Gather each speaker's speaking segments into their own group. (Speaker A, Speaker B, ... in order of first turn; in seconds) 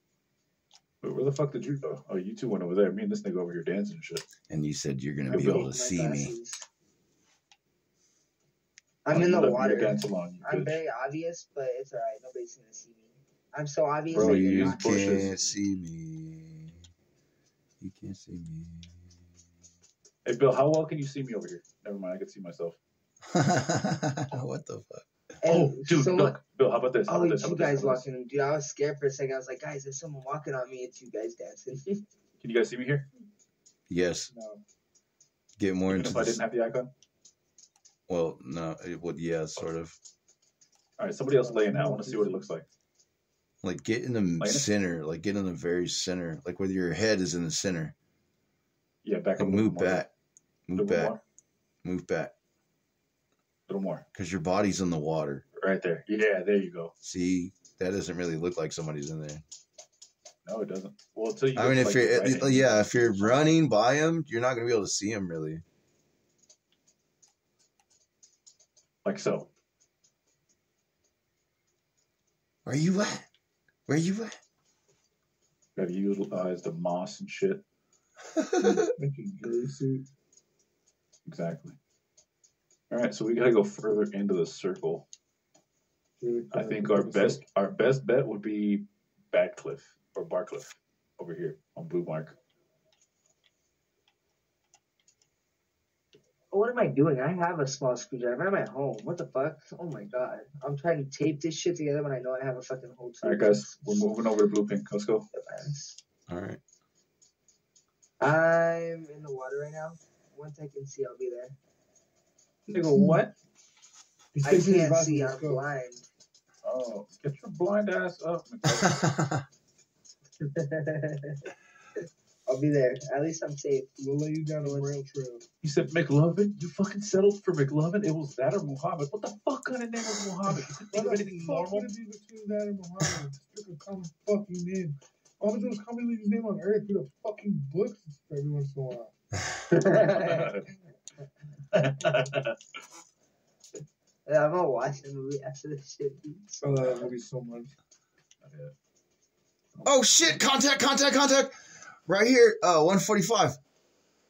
Speaker A: 1.0-4.2, 5.3-5.7, 9.1-10.8, 14.1-15.6, 20.2-22.8, 25.5-28.1, 32.4-33.1, 35.9-36.9, 41.0-42.6, 44.4-44.7, 49.0-50.0, 50.8-51.2, 53.7-54.0, 55.5-56.9, 60.5-63.5, 69.0-69.5, 75.8-77.6, 81.3-81.8, 82.9-85.0, 86.5-92.3, 103.2-105.2, 112.7-113.3, 116.6-119.0, 125.6-131.9, 140.1-140.7, 141.7-142.5, 148.4-148.7, 149.8-150.4
Speaker B: 4.5-6.3, 14.1-16.8, 17.8-19.0, 23.3-25.0, 33.9-34.3, 35.6-36.4, 38.1-40.0, 43.6-47.9, 49.4-50.1, 50.7-51.1, 51.8-52.3, 54.1-55.4, 57.0-59.4, 61.5-65.6, 72.7-73.3, 73.9-74.4, 78.3-78.8, 106.3-106.6, 118.8-119.4, 149.8-151.5, 152.1-153.6
Speaker C: 5.3-6.7, 9.1-15.2, 25.4-26.4, 27.1-32.0, 96.5-104.1, 105.3-106.0, 108.2-111.6, 114.4-116.1, 120.4-121.5, 122.5-124.0, 124.6-125.0, 139.7-140.7, 144.2-147.1
Speaker D: 34.3-34.6, 41.4-42.5, 78.6-80.1, 86.2-87.4, 112.9-113.2, 114.3-115.6, 124.0-125.4, 130.9-139.1, 146.6-147.7